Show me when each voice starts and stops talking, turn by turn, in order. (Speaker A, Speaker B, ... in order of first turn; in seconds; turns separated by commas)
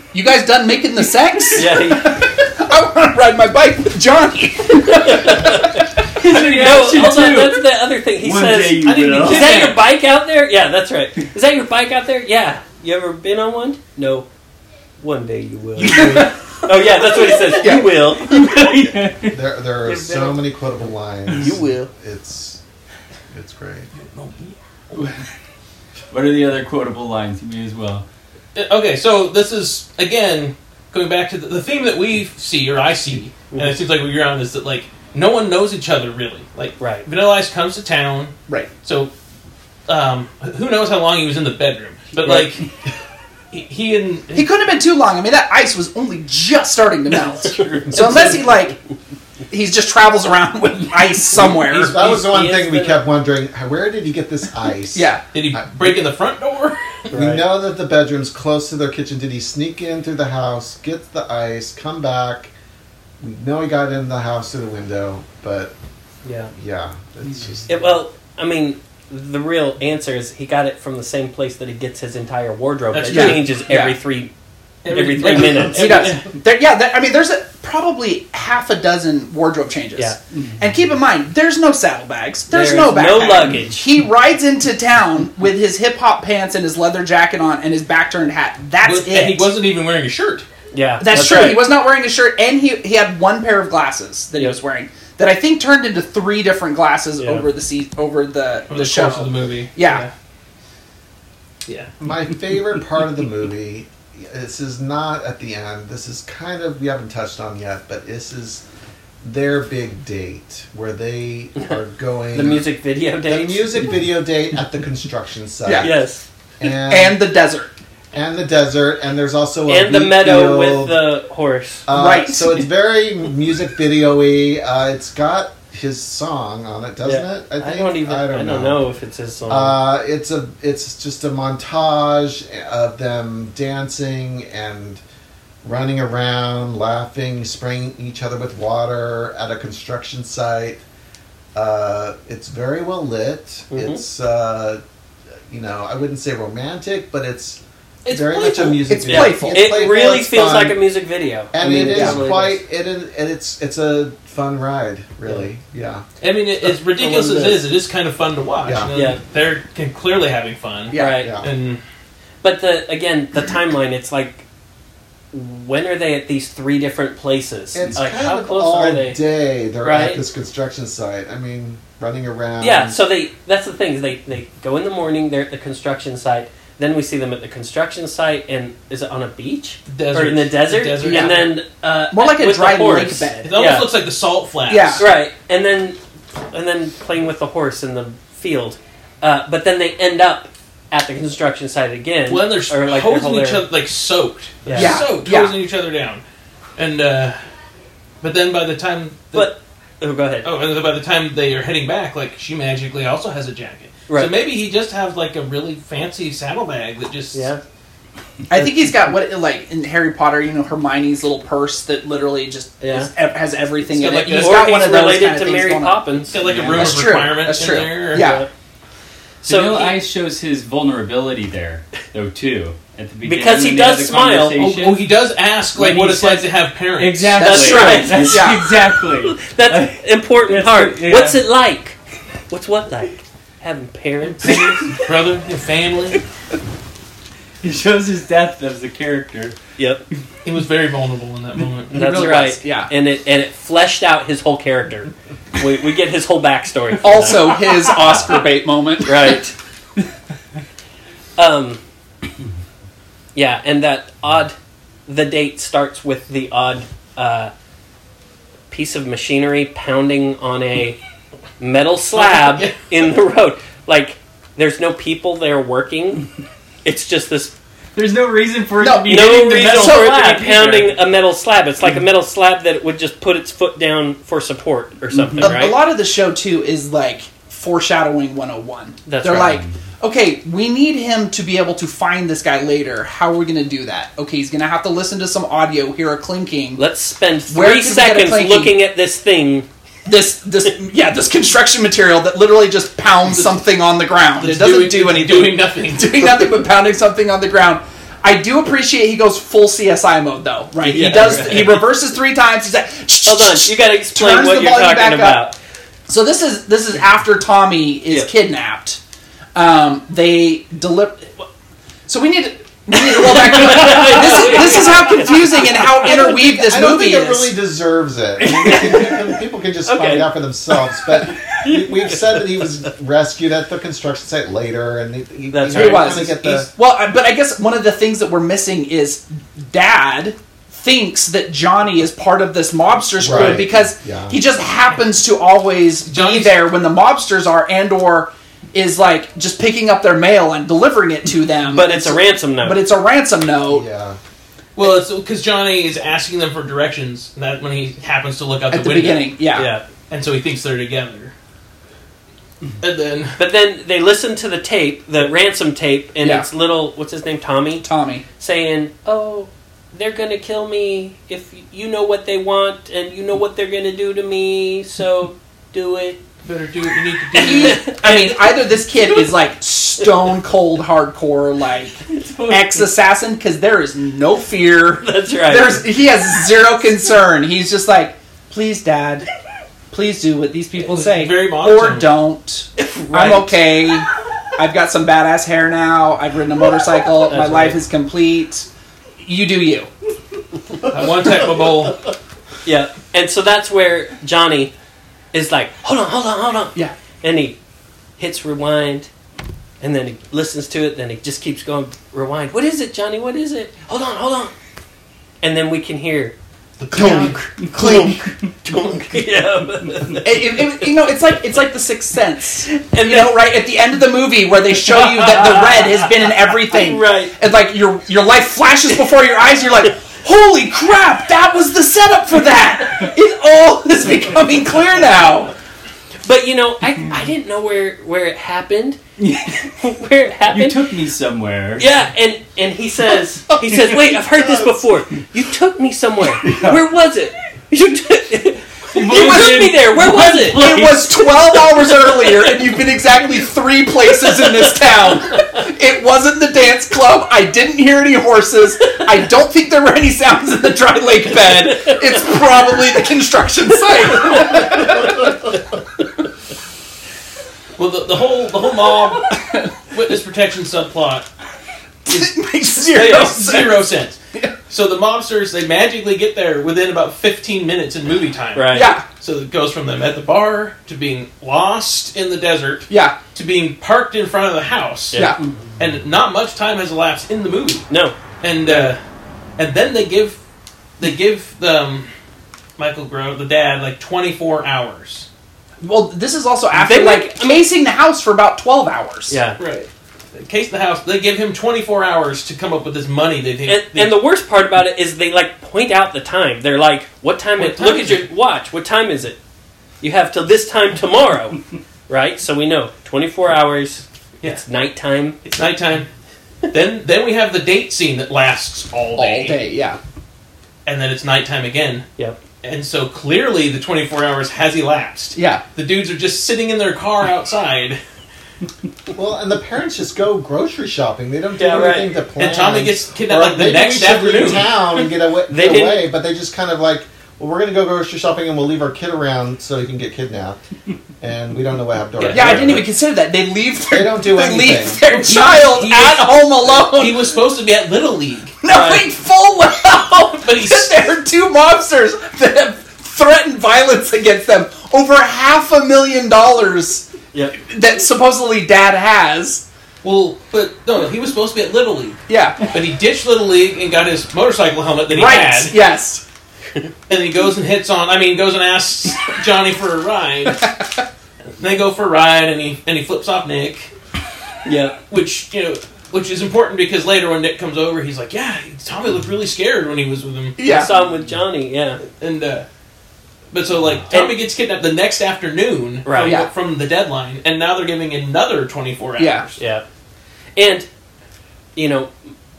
Speaker A: 0.1-5.8, Speaker B: 1.5-2.2, Speaker B: 4.9-14.3, Speaker C: 6.2-7.7, Speaker C: 8.2-9.8, Speaker D: 8.8-9.8, Speaker B: 15.0-18.8, Speaker D: 15.8-16.3, Speaker A: 15.8-17.9, Speaker C: 18.3-19.3, Speaker E: 19.1-22.6, Speaker B: 19.8-20.4, Speaker B: 21.3-21.9, Speaker E: 23.3-23.9, Speaker D: 24.0-25.1, Speaker C: 26.1-28.0, Speaker D: 28.5-39.1, Speaker B: 33.5-33.8, Speaker B: 36.8-37.0, Speaker D: 39.9-42.6, Speaker B: 42.2-42.5, Speaker D: 43.5-44.5, Speaker A: 44.3-48.8, Speaker B: 47.5-48.6, Speaker D: 48.0-48.4, Speaker A: 49.5-52.0, Speaker D: 51.4-52.2, Speaker E: 51.4-56.0, Speaker B: 52.0-53.0, Speaker A: 54.9-55.2, Speaker D: 55.3-57.0, Speaker B: 57.1-57.5, Speaker E: 57.1-62.5, Speaker E: 63.2-65.7, Speaker B: 66.2-66.5, Speaker E: 66.5-67.8, Speaker B: 67.7-74.3, Speaker D: 72.9-73.7, Speaker A: 73.1-74.0, Speaker D: 74.8-76.3, Speaker B: 74.9-76.1, Speaker A: 75.4-89.5, Speaker B: 82.5-83.9, Speaker D: 88.8-90.5, Speaker B: 90.7-91.7, Speaker A: 91.0-100.0, Speaker B: 97.2-97.5, Speaker D: 98.7-100.0, Speaker D: 101.7-101.9, Speaker E: 102.0-108.6, Speaker E: 109.2-112.7, Speaker B: 112.3-113.8, Speaker E: 113.2-115.9, Speaker A: 115.6-115.9, Speaker B: 115.8-116.2, Speaker E: 116.6-117.2, Speaker A: 116.9-117.7, Speaker E: 118.1-121.0, Speaker B: 119.7-121.8, Speaker E: 121.8-128.8, Speaker A: 121.9-122.6, Speaker B: 127.0-129.8, Speaker E: 129.5-135.0, Speaker E: 135.6-140.8, Speaker E: 141.5-144.8, Speaker B: 143.7-144.0, Speaker E: 145.5-150.8, Speaker D: 148.0-148.9, Speaker A: 148.9-149.7, Speaker B: 149.1-152.6, Speaker E: 151.5-156.1, Speaker A: 151.9-152.2, Speaker D: 156.2-161.8, Speaker E: 156.6-157.7, Speaker E: 158.6-158.9, Speaker B: 158.9-159.2, Speaker A: 160.9-161.2, Speaker B: 160.9-161.3, Speaker E: 161.0-161.5, Speaker B: 162.4-164.4, Speaker B: 165.3-169.2, Speaker E: 167.7-173.0, Speaker B: 169.8-170.2, Speaker B: 172.6-183.9, Speaker D: 179.9-181.5, Speaker A: 181.0-181.4, Speaker A: 182.1-183.6, Speaker D: 183.4-185.0, Speaker A: 184.7-185.1, Speaker B: 185.0-186.0, Speaker B: 186.5-193.6, Speaker D: 192.3-196.2, Speaker B: 194.6-195.0, Speaker A: 194.7-195.6, Speaker D: 196.8-197.4, Speaker D: 198.2-199.5, Speaker B: 199.3-200.5, Speaker D: 200.4-207.5, Speaker B: 204.1-204.3, Speaker B: 207.3-207.6, Speaker A: 208.5-216.0, Speaker B: 212.8-213.1, Speaker D: 213.8-214.8, Speaker B: 214.4-216.3, Speaker D: 216.3-218.3, Speaker C: 216.4-217.2, Speaker A: 216.7-218.4, Speaker B: 218.1-218.5, Speaker B: 219.4-220.0, Speaker C: 219.4-225.0, Speaker B: 223.2-224.6, Speaker D: 224.6-228.3, Speaker C: 225.8-231.4, Speaker A: 227.4-228.8, Speaker B: 227.4-228.5, Speaker B: 229.2-232.0, Speaker B: 232.5-234.9, Speaker D: 234.4-236.2, Speaker C: 237.6-239.6, Speaker B: 239.8-240.0, Speaker D: 240.4-242.0, Speaker A: 241.9-242.9, Speaker B: 241.9-247.6, Speaker A: 247.0-249.4, Speaker B: 249.0-249.5, Speaker B: 251.4-251.8, Speaker B: 253.3-254.5, Speaker B: 255.1-257.5, Speaker B: 258.7-261.0, Speaker B: 261.6-266.2, Speaker D: 262.1-263.1, Speaker B: 266.8-267.5, Speaker C: 267.9-271.0, Speaker A: 268.8-270.2, Speaker B: 269.1-275.8, Speaker C: 275.1-275.6, Speaker A: 275.4-286.8, Speaker B: 279.1-279.6, Speaker C: 279.4-279.8, Speaker B: 286.8-289.7, Speaker A: 287.5-288.8, Speaker A: 290.1-305.4, Speaker D: 294.3-296.5, Speaker B: 300.8-301.9, Speaker B: 303.2-305.6, Speaker A: 306.1-309.0, Speaker A: 309.5-311.4, Speaker A: 312.1-317.5, Speaker B: 312.9-316.4, Speaker E: 316.1-326.7, Speaker B: 318.6-319.1, Speaker A: 318.7-319.0, Speaker B: 319.9-320.3, Speaker B: 321.4-322.7, Speaker B: 325.5-326.2, Speaker A: 325.7-343.9, Speaker E: 333.2-334.4, Speaker D: 336.1-336.6, Speaker B: 341.7-342.8, Speaker E: 343.6-344.2, Speaker D: 344.8-349.3, Speaker A: 348.7-349.7, Speaker B: 349.5-349.8, Speaker D: 350.1-351.3, Speaker D: 352.8-353.4, Speaker B: 353.4-357.8, Speaker A: 356.2-356.5, Speaker A: 357.8-358.2, Speaker B: 358.4-366.2, Speaker D: 366.4-367.9, Speaker A: 367.3-379.3, Speaker B: 367.4-368.5, Speaker C: 372.1-372.9, Speaker B: 375.0-375.9, Speaker A: 379.9-388.7, Speaker D: 380.8-382.1, Speaker B: 382.8-383.7, Speaker B: 387.2-387.8, Speaker A: 389.2-389.9, Speaker D: 390.9-392.0, Speaker B: 392.6-394.7, Speaker B: 395.3-397.6, Speaker B: 398.2-399.1, Speaker B: 399.8-404.5, Speaker B: 405.4-406.3, Speaker D: 406.8-407.5, Speaker A: 406.9-408.3, Speaker C: 407.6-408.3, Speaker B: 407.7-410.9, Speaker C: 409.8-410.2, Speaker A: 410.2-425.5, Speaker B: 412.7-413.4, Speaker B: 414.9-417.3, Speaker B: 426.2-429.0, Speaker C: 429.2-429.9, Speaker B: 429.6-430.9, Speaker C: 430.5-431.9, Speaker B: 431.8-442.7, Speaker C: 433.6-434.1, Speaker C: 436.3-436.8, Speaker C: 438.9-441.1, Speaker A: 439.1-439.7, Speaker A: 440.4-455.3, Speaker B: 444.2-444.9, Speaker B: 451.4-452.6, Speaker B: 454.1-455.3, Speaker D: 457.8-461.3, Speaker A: 462.1-464.5, Speaker D: 462.8-477.9, Speaker B: 462.9-463.3, Speaker B: 468.5-468.9, Speaker A: 468.7-469.1, Speaker A: 472.9-473.1, Speaker A: 475.1-475.4, Speaker C: 475.4-475.7, Speaker B: 477.9-478.1, Speaker D: 478.4-479.0, Speaker D: 479.6-480.4, Speaker D: 481.0-482.1, Speaker D: 482.8-485.3, Speaker A: 485.8-489.4, Speaker B: 486.7-487.6, Speaker B: 489.3-489.6, Speaker D: 489.6-494.2, Speaker B: 493.6-499.4, Speaker D: 497.6-498.3, Speaker B: 500.0-505.4, Speaker D: 505.4-506.1, Speaker D: 506.7-509.6, Speaker A: 509.2-510.0, Speaker D: 510.9-512.0, Speaker D: 512.6-518.0, Speaker A: 515.3-515.6, Speaker E: 519.1-530.6, Speaker B: 521.6-522.1, Speaker D: 522.4-525.0, Speaker B: 525.5-526.0, Speaker E: 531.2-532.9, Speaker D: 532.2-532.8, Speaker A: 532.3-537.3, Speaker E: 533.9-535.0, Speaker D: 535.1-538.6, Speaker A: 538.6-547.1, Speaker B: 538.7-539.1, Speaker D: 540.4-540.9, Speaker B: 547.3-547.6, Speaker A: 547.6-549.6, Speaker D: 550.0-555.8, Speaker A: 552.3-552.7, Speaker A: 555.1-556.2, Speaker D: 557.1-560.7, Speaker A: 560.5-561.0, Speaker D: 561.6-563.9, Speaker B: 564.6-565.0, Speaker D: 565.1-570.6, Speaker A: 570.6-570.9, Speaker B: 570.6-572.0, Speaker D: 572.0-572.6, Speaker D: 573.5-579.6, Speaker B: 574.1-574.4, Speaker B: 576.0-576.4, Speaker A: 576.2-576.5, Speaker A: 579.2-579.5, Speaker B: 579.6-579.8, Speaker B: 580.5-580.9, Speaker B: 581.8-582.1